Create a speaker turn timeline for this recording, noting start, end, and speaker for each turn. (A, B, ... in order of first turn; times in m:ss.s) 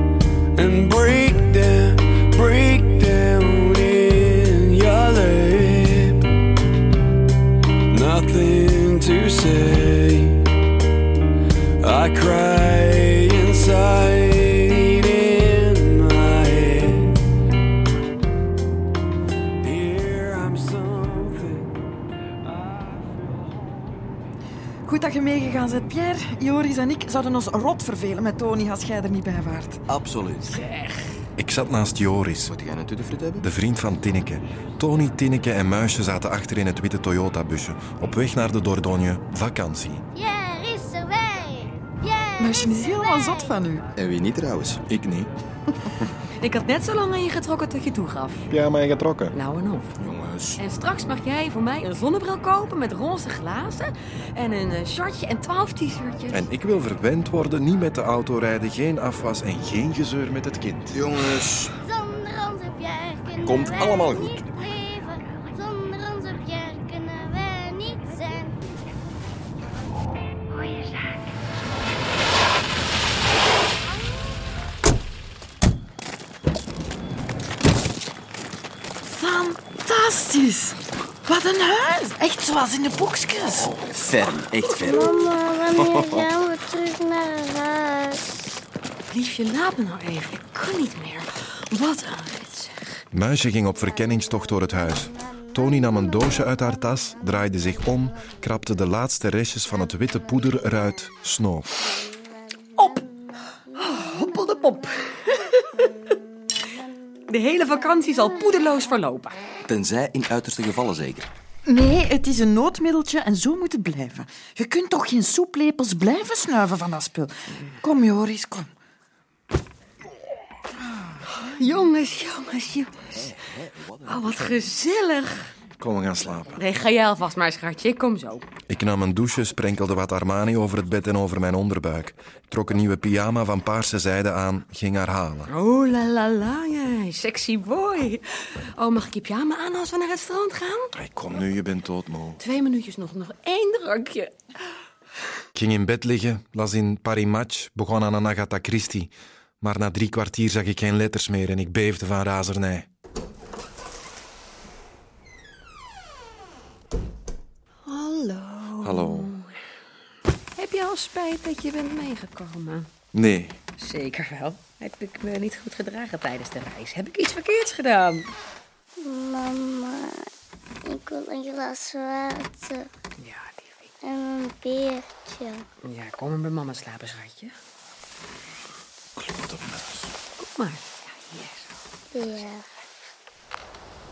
0:00.6-0:06.2 A
0:07.9-0:10.4 A
0:11.8-0:17.2 A
0:19.6-0:21.8 A
0:22.5-0:23.2 A
0:24.8-0:29.8 B
0:29.9-0:30.6 C
0:30.5-0:31.0 D
0:31.4-0:32.5 E
0:32.5-0:33.4 C
0:33.4-0:40.0 E
0:40.1-0:43.6 F
0:42.4-0:43.9 B
0:44.0-0:44.8 C
0:44.9-0:45.3 E
0:46.4-0:48.5 D
0:48.5-0:49.4 E
0:49.3-0:49.9 D
0:50.0-0:50.6 C
0:50.6-0:56.5 D
0:56.3-1:01.0 E
1:00.9-1:01.7 C
1:01.8-1:08.6 F
1:03.4-1:04.4 C
1:19.0-1:23.7 B
1:23.6-1:25.2 C
1:24.8-1:28.5 F
1:25.8-1:26.3 C
1:29.1-1:33.0 D
1:33.1-1:41.8 E
1:34.9-1:36.6 F
1:37.4-1:37.8 F
1:41.9-1:44.9 F
1:43.8-1:44.8 B
1:45.3-1:45.6 D
1:45.8-1:46.9 F
1:47.3-1:49.4 D
1:47.6-1:48.3 F
1:49.7-1:51.3 C
1:51.7-1:58.7 B
2:01.3-2:03.2 D
2:03.4-2:04.3 C
2:04.0-2:05.5 D
2:05.8-2:06.6 E
2:06.5-2:08.5 D
2:08.7-2:15.5 E
2:15.5-2:20.9 D
2:20.9-2:22.4 E
2:22.4-2:24.4 D
2:25.5-2:32.9 E
2:37.9-2:39.5 D
2:38.8-2:39.3 E
2:40.6-2:42.9 D
2:43.1-2:43.6 E
2:43.8-2:48.3 D
2:49.0-2:50.3 F
2:50.8-2:52.9 F
2:53.2-2:53.9 D
2:54.0-2:55.6 F
2:55.8-2:57.6 D
2:59.2-3:00.1 E
3:00.4-3:01.7 D
3:02.1-3:02.6 F